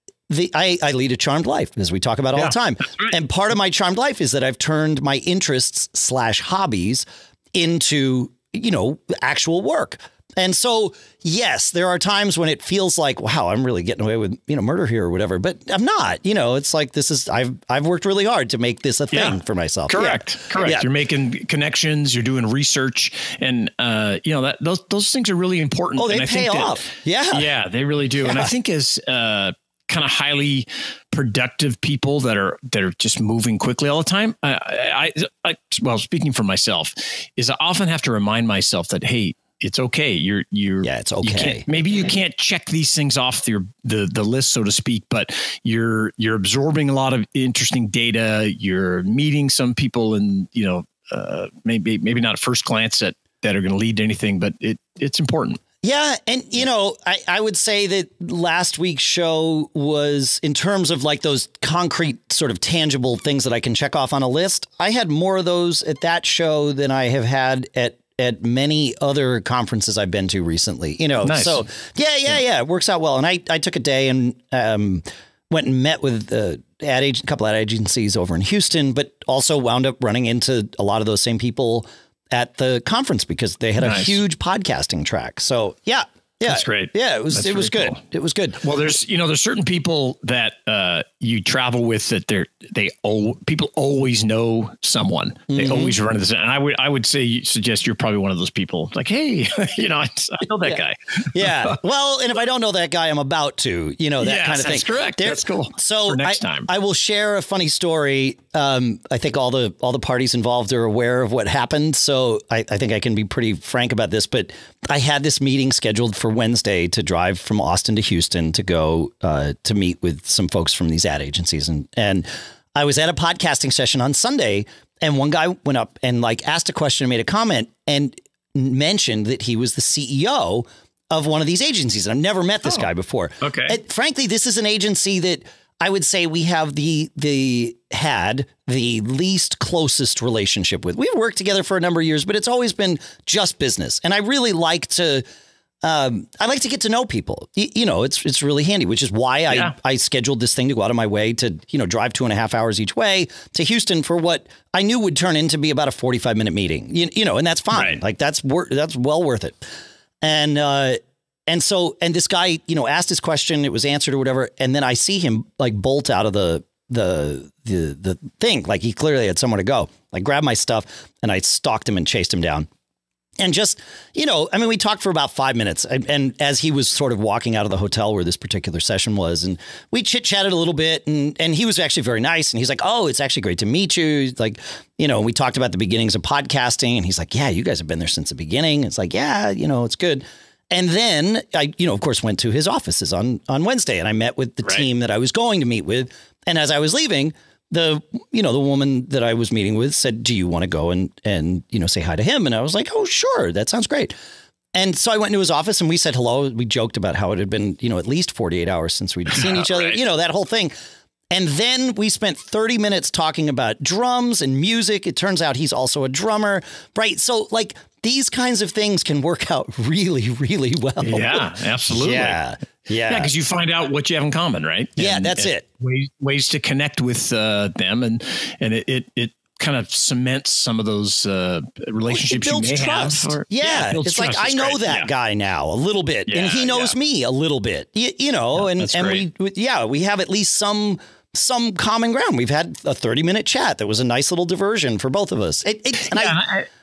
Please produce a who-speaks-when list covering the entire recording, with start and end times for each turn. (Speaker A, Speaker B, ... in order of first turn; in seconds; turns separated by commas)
Speaker A: 0.3-20.9, Speaker B: 2.3-3.1, Speaker B: 19.1-55.6, Speaker A: 26.0-27.4, Speaker A: 40.8-41.6, Speaker A: 55.8-88.6, Speaker B: 71.2-71.6, Speaker B: 83.8-84.2, Speaker B: 86.5-88.0, Speaker B: 88.6-101.8, Speaker A: 95.5-95.9, Speaker A: 101.3-145.2, Speaker B: 104.2-106.7, Speaker B: 133.4-133.7, Speaker A: 145.8-159.6, Speaker B: 149.5-149.7, Speaker B: 157.7-158.0, Speaker A: 160.2-172.7, Speaker A: 173.4-204.1, Speaker A: 204.7-210.7, Speaker B: 209.3-210.0, Speaker A: 211.3-223.3, Speaker B: 221.0-222.4, Speaker B: 223.1-235.1, Speaker A: 225.0-225.6, Speaker A: 232.1-246.4, Speaker B: 236.3-236.9, Speaker B: 238.5-239.2, Speaker B: 246.0-246.7